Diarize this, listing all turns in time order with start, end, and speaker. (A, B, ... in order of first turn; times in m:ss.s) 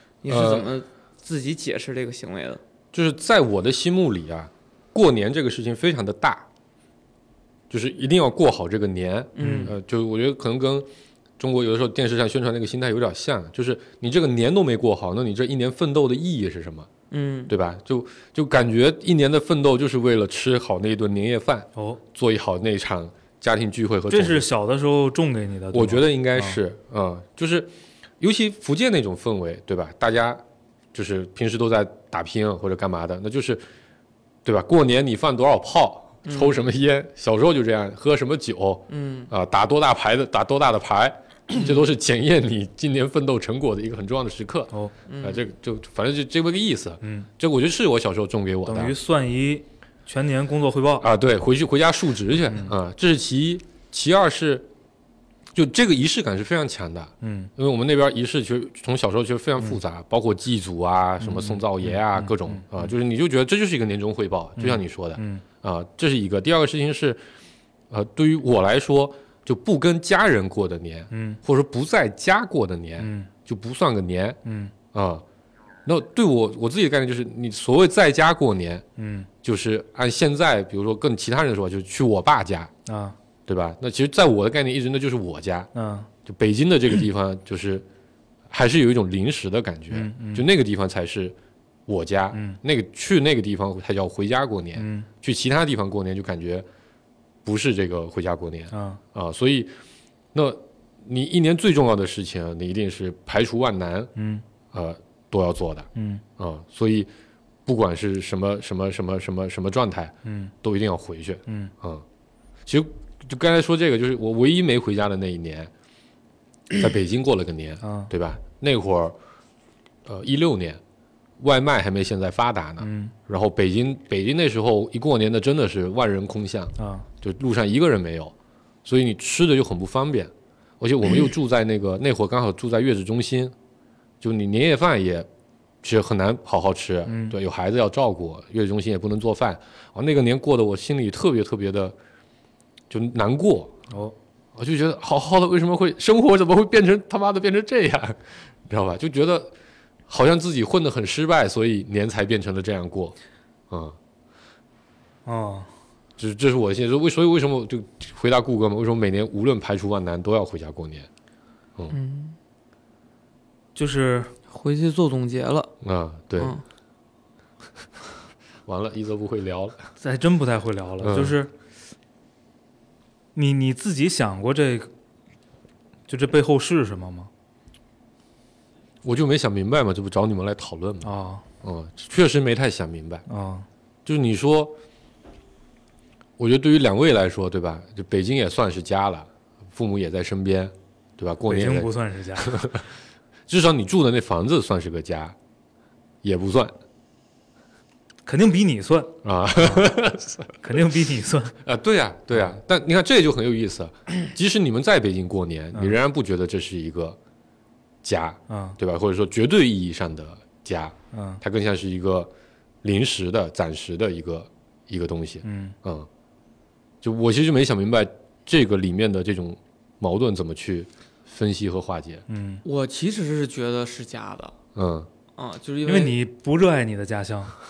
0:00.2-0:02.6 A
0:00.3-0:00.7 B
0:02.9-0:06.5 B
0:07.7-0:10.9 B
0:09.4-0:09.7 A
0:09.4-0:09.7 C
0:11.4-0:16.9 B
0:17.1-0:17.5 A
0:17.5-0:24.5 B
0:21.8-0:22.0 C
0:24.1-0:26.6 C
0:25.7-0:30.4 B
0:30.9-0:33.6 B
0:34.4-0:49.0 B
0:36.2-0:36.7 A
0:38.9-0:39.3 A
0:45.1-0:45.4 A
0:47.0-0:47.3 C
0:48.7-0:51.1 C
0:51.0-0:54.7 B
0:55.5-1:07.2 B
0:57.2-0:57.5 C
1:01.2-1:02.9 C
1:04.6-1:05.4 C
1:07.9-1:14.4 B
1:11.1-1:11.4 C
1:13.0-1:13.3 C
1:14.4-1:14.7 C
1:14.9-1:15.2 B
1:15.9-1:18.8 B
1:19.0-1:19.3 C
1:19.4-1:22.7 B
1:22.9-1:23.2 C
1:23.5-1:25.7 B
1:25.8-1:26.1 C
1:26.2-1:27.9 B
1:28.5-1:31.4 B
1:29.9-1:30.5 C
1:31.9-1:36.6 B
1:32.3-1:32.6 C
1:34.8-1:35.1 C
1:37.4-1:39.7 B
1:38.7-1:39.0 C
1:40.3-1:44.1 B
1:44.2-1:44.4 C
1:44.7-1:47.1 B
1:46.0-1:46.2 C
1:47.7-1:52.0 B
1:50.2-1:50.5 C
1:51.5-1:51.7 C
1:52.7-1:55.7 B
1:56.7-1:59.2 B
1:57.8-1:58.1 C
2:00.0-2:00.8 B
2:01.4-2:08.3 B
2:02.8-2:03.1 C
2:06.8-2:07.1 C
2:08.8-2:13.6 B
2:14.2-2:15.3 B
2:15.8-2:22.0 B
2:17.1-2:17.4 C
2:22.9-2:23.8 B
2:23.9-2:24.2 C
2:24.5-2:29.5 B
2:30.1-2:33.2 B
2:33.7-2:34.0 B
2:35.3-2:35.7 C
2:36.2-2:41.1 B
2:41.9-2:42.4 A
2:43.8-2:44.3 C
2:44.5-2:45.7 A
2:45.8-2:46.6 B
2:46.4-2:46.6 A
2:48.7-2:49.9 B
2:50.0-2:51.5 C
2:51.0-2:51.4 B
2:53.4-2:54.9 C
2:56.1-2:57.3 C
2:59.0-3:01.1 B
3:01.0-3:01.4 C
3:01.6-3:03.2 B
3:03.3-3:03.7 C
3:04.0-3:04.8 B
3:06.4-3:12.9 B
3:11.5-3:12.7 C
3:13.5-3:15.4 B
3:16.2-3:16.8 B
3:18.3-3:19.9 C
3:19.2-3:20.6 B
3:20.6-3:21.6 C
3:21.6-3:27.2 B
3:28.0-3:32.3 B
3:28.5-3:28.8 C
3:31.1-3:31.4 C
3:32.8-3:36.1 B
3:35.4-3:35.8 C
3:37.0-3:42.2 B
3:42.3-3:42.6 C
3:42.6-3:44.6 A
3:44.8-3:45.1 B
3:45.4-3:46.2 A
3:45.8-3:47.6 C